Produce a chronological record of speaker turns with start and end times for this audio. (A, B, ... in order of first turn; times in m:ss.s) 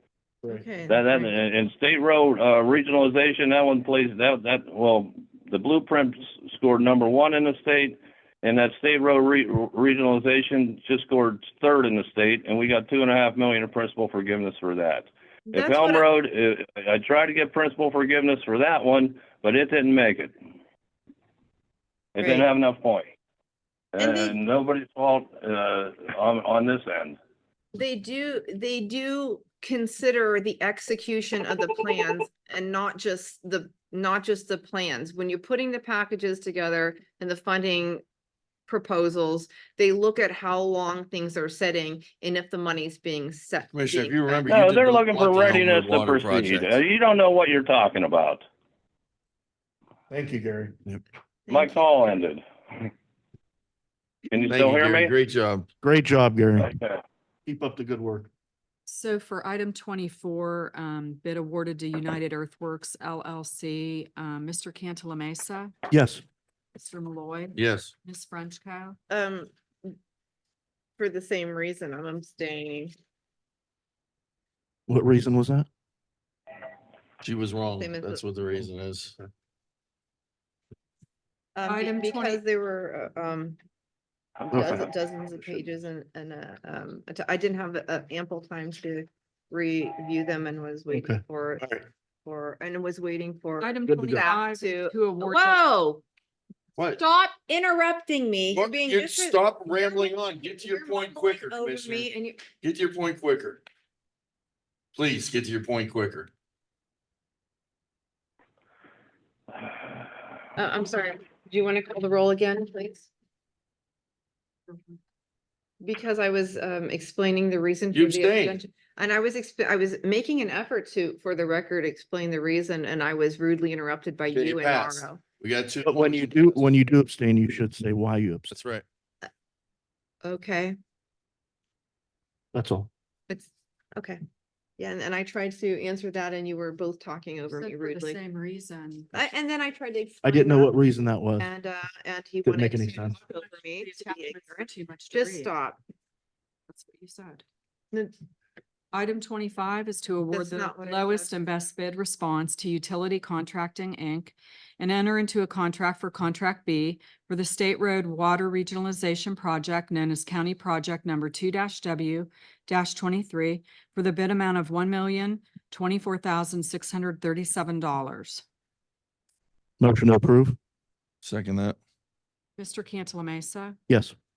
0:00.4-0:01.4 A
0:00.9-0:20.3 B
0:15.5-0:16.1 A
0:22.1-0:23.1 B
0:22.2-0:22.5 A
0:23.9-0:27.2 B
0:24.0-0:24.4 A
0:27.7-0:38.0 A
0:38.7-0:44.5 A
0:43.7-0:46.8 C
0:44.5-0:48.4 B
0:50.1-0:50.8 D
0:51.5-0:52.9 B
0:54.3-0:55.1 B
0:54.5-0:55.7 C
0:55.8-0:56.7 D
0:56.6-0:57.0 B
0:57.4-0:58.3 D
0:58.8-1:05.7 E
1:05.9-1:06.2 D
1:06.7-1:09.0 E
1:07.5-1:07.9 C
1:09.1-1:10.0 A
1:11.0-1:12.9 A
1:14.9-1:15.7 D
1:17.2-1:19.2 C
1:17.8-1:18.2 A
1:21.5-1:23.6 A
1:21.6-1:22.4 E
1:24.4-1:24.9 B
1:24.5-1:31.7 A
1:30.9-1:31.8 D
1:32.2-1:36.0 A
1:33.6-1:35.6 E
1:33.9-1:34.2 D
1:36.9-1:42.5 A
1:38.5-1:42.1 C
1:42.6-1:43.6 C
1:44.9-1:46.3 C
1:50.6-1:53.1 A
1:55.8-2:05.2 A
1:57.9-1:58.6 C
2:04.3-2:06.7 C
2:05.8-2:08.5 D
2:08.5-2:08.8 C
2:10.2-2:10.8 A
2:12.5-2:12.9 D
2:13.3-2:14.2 A
2:14.8-2:18.2 A
2:17.5-2:19.1 E
2:19.1-2:25.8 A
2:20.2-2:21.5 D
2:22.4-2:23.2 D
2:23.3-2:25.5 E
2:26.7-2:27.4 E
2:28.9-2:48.4 E
2:30.3-2:31.3 A
2:49.8-2:50.6 D
2:51.2-2:51.8 C
2:52.6-2:53.8 E
2:53.9-2:54.1 D